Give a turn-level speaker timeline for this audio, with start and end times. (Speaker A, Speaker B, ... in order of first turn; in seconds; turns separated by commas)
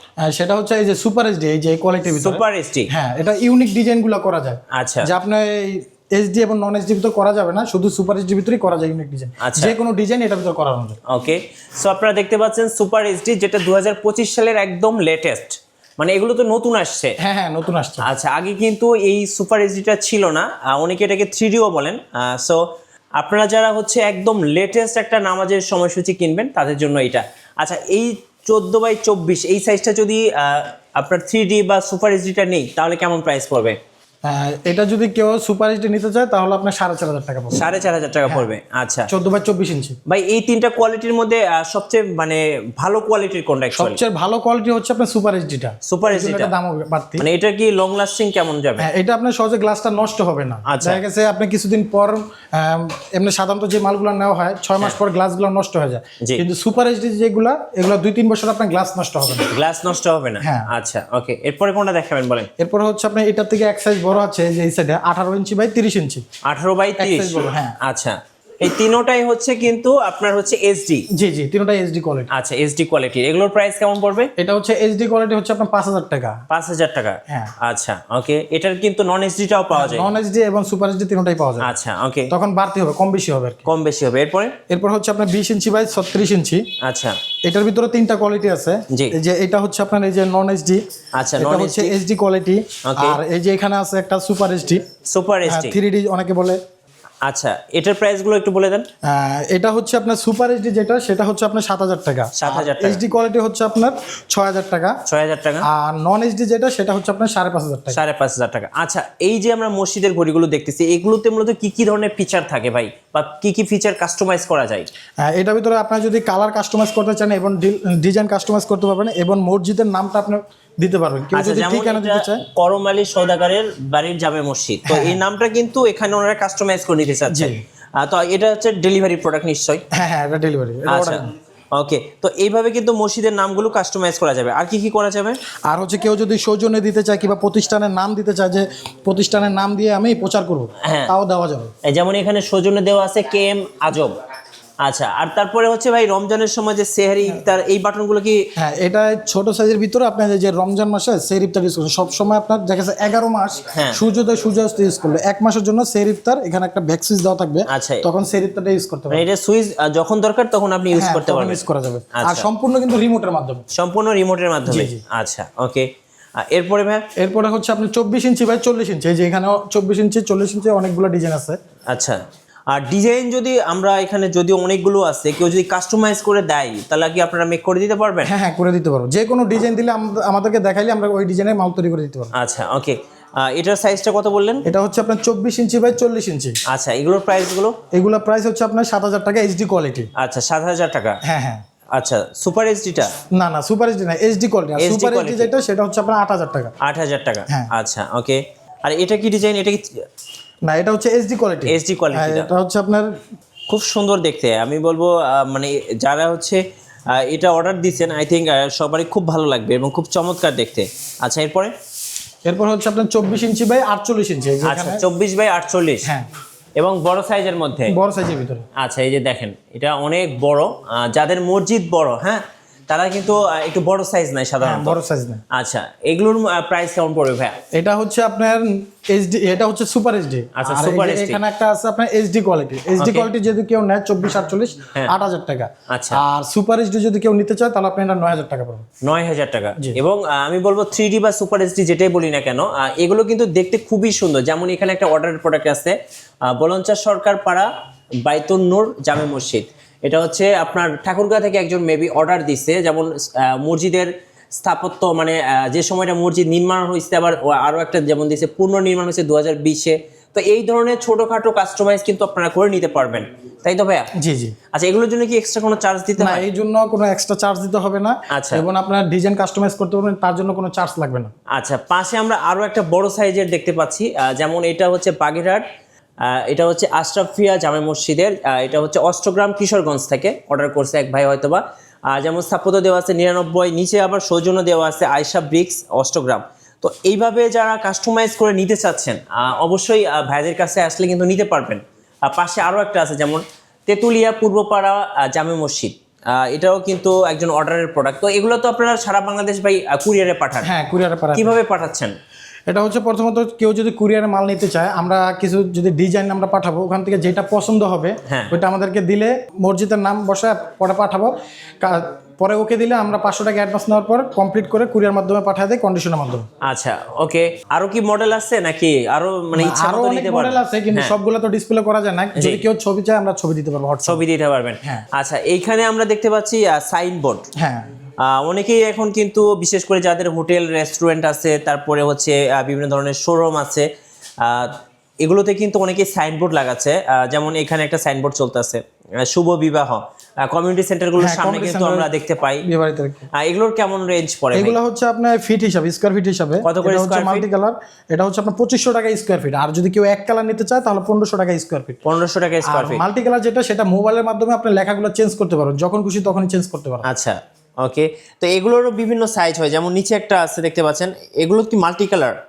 Speaker A: 0.2-11.0, Speaker B: 2.1-2.9, Speaker B: 4.7-5.1, Speaker B: 9.4-9.8, Speaker B: 11.1-17.1, Speaker A: 17.2-18.1, Speaker B: 18.0-22.6, Speaker B: 23.2-33.8, Speaker A: 34.2-37.6, Speaker B: 37.5-39.1, Speaker A: 39.1-40.0, Speaker B: 40.1-44.0, Speaker A: 43.8-47.2, Speaker B: 45.8-46.5, Speaker B: 47.2-48.9, Speaker A: 48.8-59.5, Speaker B: 50.6-51.0, Speaker B: 59.5-62.5, Speaker A: 60.4-60.7, Speaker A: 62.6-66.2, Speaker B: 66.4-71.0, Speaker A: 67.0-67.8, Speaker A: 71.1-72.3, Speaker B: 72.3-74.3, Speaker A: 74.4-76.4, Speaker B: 76.5-80.1, Speaker A: 77.3-77.5, Speaker A: 79.7-81.7, Speaker B: 81.6-82.3, Speaker A: 82.3-83.7, Speaker B: 83.7-84.5, Speaker A: 84.7-86.6, Speaker B: 86.8-87.2, Speaker A: 87.5-90.8, Speaker B: 91.1-91.9, Speaker A: 91.4-94.8, Speaker B: 92.9-93.2, Speaker B: 95.0-95.8, Speaker A: 95.5-96.6, Speaker B: 97.2-98.8, Speaker A: 99.0-105.0, Speaker B: 102.3-103.0, Speaker B: 105.1-105.7, Speaker A: 105.6-108.0, Speaker B: 107.9-114.9, Speaker A: 115.2-122.4, Speaker B: 121.3-129.8, Speaker A: 124.9-125.2, Speaker A: 127.3-127.6, Speaker A: 129.9-131.3, Speaker B: 130.9-131.2, Speaker B: 131.7-135.4, Speaker A: 135.7-141.7, Speaker B: 140.8-141.1, Speaker B: 141.8-144.1, Speaker B: 144.8-148.4, Speaker A: 148.6-159.2, Speaker B: 153.7-154.0, Speaker B: 157.7-158.0, Speaker B: 159.1-161.6, Speaker A: 160.9-163.6, Speaker B: 162.1-162.5, Speaker B: 163.7-167.0, Speaker A: 164.7-165.0, Speaker A: 167.2-171.6, Speaker B: 171.9-172.2, Speaker B: 172.7-178.3, Speaker A: 178.2-182.3, Speaker B: 182.3-184.6, Speaker A: 184.6-186.6, Speaker B: 186.7-187.8, Speaker A: 187.9-190.1, Speaker B: 190.2-191.2, Speaker A: 191.2-191.6, Speaker B: 191.9-193.1, Speaker A: 193.3-196.7, Speaker B: 194.8-195.5, Speaker B: 196.8-200.0, Speaker A: 200.7-203.1, Speaker B: 201.7-202.5, Speaker B: 203.7-206.6, Speaker B: 207.1-211.7, Speaker A: 212.4-215.0, Speaker B: 214.6-216.1, Speaker B: 216.8-217.9, Speaker A: 217.9-218.7, Speaker B: 218.8-225.0, Speaker A: 224.6-225.4, Speaker B: 225.5-227.5, Speaker A: 227.7-238.9, Speaker B: 230.6-231.4, Speaker B: 233.0-233.3, Speaker B: 235.9-236.2, Speaker B: 239.0-247.7, Speaker B: 248.2-264.1, Speaker A: 264.2-264.6, Speaker B: 264.7-266.4, Speaker A: 266.2-271.3, Speaker B: 268.3-268.6, Speaker B: 271.6-275.6, Speaker B: 276.2-300.7, Speaker A: 300.6-301.6, Speaker B: 301.3-302.1, Speaker A: 302.7-316.4, Speaker B: 308.3-308.6, Speaker B: 316.6-321.1, Speaker A: 319.6-324.2, Speaker B: 322.4-322.6, Speaker B: 324.1-327.5, Speaker A: 327.6-327.9, Speaker B: 328.2-333.9, Speaker B: 334.4-342.6, Speaker A: 341.2-342.1, Speaker A: 342.6-343.3, Speaker B: 343.3-344.8, Speaker A: 344.5-352.0, Speaker B: 346.6-347.5, Speaker B: 352.0-353.0, Speaker A: 352.6-357.0, Speaker B: 357.1-362.4